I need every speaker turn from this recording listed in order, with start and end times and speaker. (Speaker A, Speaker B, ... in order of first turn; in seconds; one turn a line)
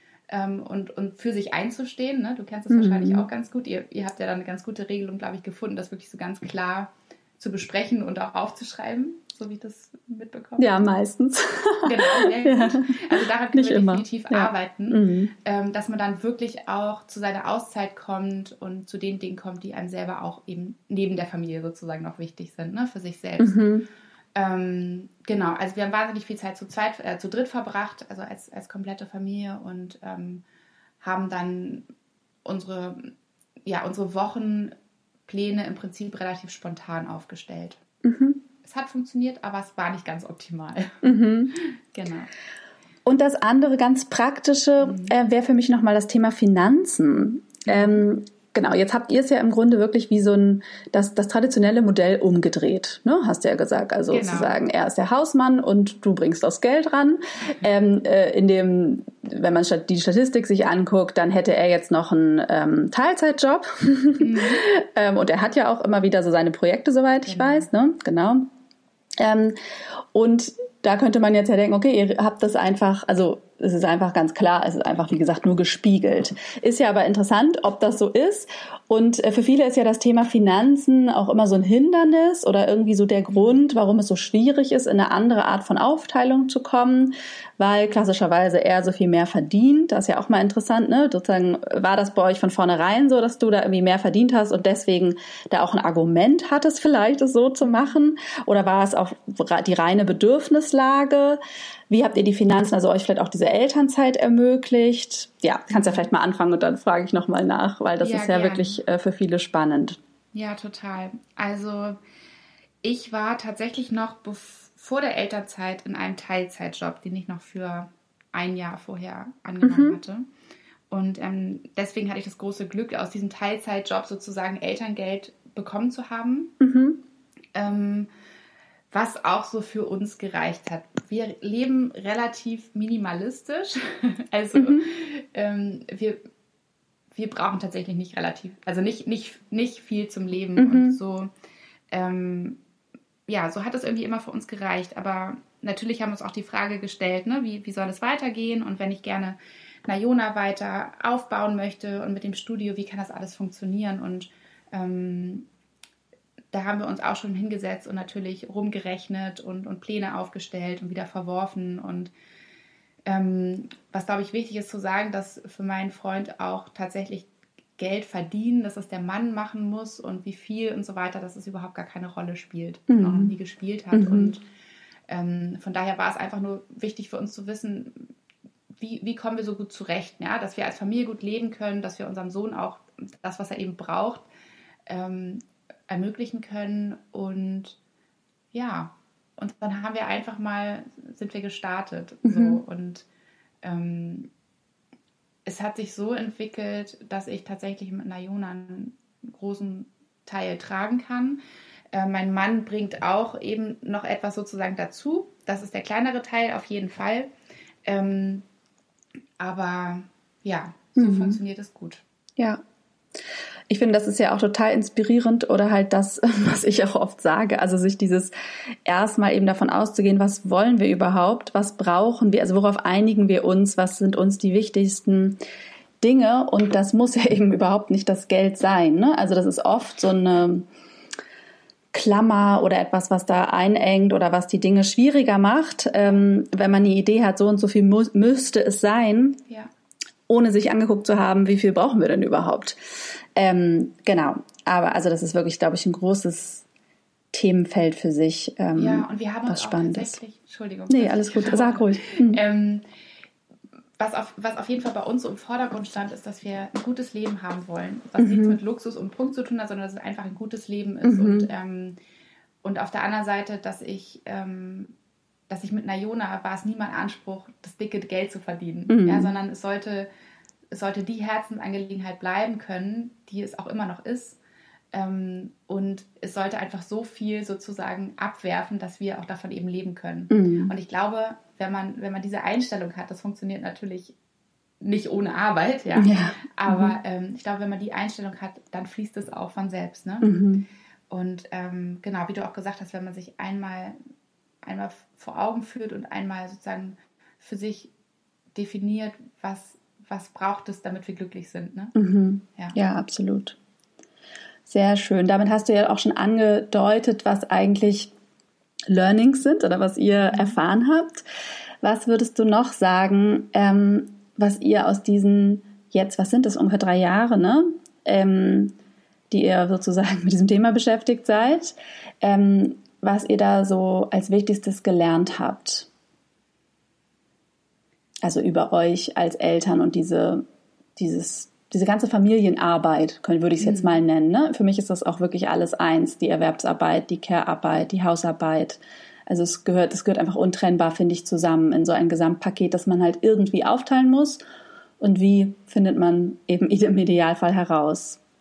Speaker A: 0.3-10.7
Speaker B: 2.7-3.3
Speaker B: 10.6-15.3
Speaker A: 11.8-23.6
Speaker B: 23.4-23.9
Speaker A: 24.4-30.4
Speaker A: 31.0-31.9
Speaker A: 32.5-33.1
Speaker A: 33.6-34.7
Speaker A: 35.3-37.8
Speaker B: 38.0-38.4
Speaker A: 38.6-42.3
Speaker B: 41.0-41.5
Speaker B: 43.0-68.5
Speaker A: 44.8-45.1
Speaker A: 47.7-48.0
Speaker A: 54.1-54.6
Speaker A: 64.2-64.6
Speaker A: 67.2-67.7
Speaker B: 69.2-69.5
Speaker B: 70.1-110.0
Speaker A: 83.3-83.6
Speaker A: 97.6-97.9
Speaker A: 105.8-106.0
Speaker A: 108.0-108.8
Speaker A: 110.3-112.0
Speaker A: 112.8-120.3
Speaker B: 119.6-120.0
Speaker A: 120.9-126.5
Speaker B: 126.6-127.0
Speaker A: 127.5-128.1
Speaker A: 128.9-136.2
Speaker B: 134.6-134.8
Speaker A: 137.1-141.3
Speaker B: 140.6-141.0
Speaker A: 141.9-142.6
Speaker A: 143.3-155.5
Speaker A: 156.5-162.1
Speaker A: 163.1-174.4
Speaker B: 172.9-173.3
Speaker B: 173.9-174.3
Speaker A: 175.1-178.1
Speaker A: 178.8-184.3
Speaker A: 184.9-187.8
Speaker A: 188.5-193.1
Speaker B: 192.2-192.6
Speaker A: 193.6-194.3
Speaker A: 195.4-201.4
Speaker A: 201.9-207.3
Speaker A: 207.8-208.4
Speaker A: 209.4-212.0
Speaker B: 210.9-211.4
Speaker B: 213.7-218.3
Speaker B: 218.8-225.4
Speaker B: 226.0-230.7
Speaker B: 231.9-239.4
Speaker B: 240.3-246.7
Speaker B: 247.3-250.2
Speaker A: 248.8-252.9
Speaker B: 250.9-252.4
Speaker A: 254.0-261.9
Speaker B: 258.2-258.6
Speaker B: 261.0-261.5
Speaker A: 262.6-264.9
Speaker A: 265.5-270.1
Speaker B: 268.9-269.3
Speaker A: 270.7-274.4
Speaker A: 274.9-284.1
Speaker B: 280.3-280.7
Speaker A: 284.8-290.3
Speaker B: 285.9-286.9
Speaker B: 290.2-290.6
Speaker A: 291.1-294.0
Speaker A: 294.6-297.9
Speaker A: 298.6-301.9
Speaker B: 301.9-303.6
Speaker B: 304.7-308.1
Speaker B: 308.9-311.2
Speaker A: 310.2-310.6
Speaker B: 311.8-318.7
Speaker B: 319.3-325.9
Speaker B: 328.2-330.4
Speaker B: 330.9-344.4
Speaker A: 333.6-334.0
Speaker B: 345.0-348.2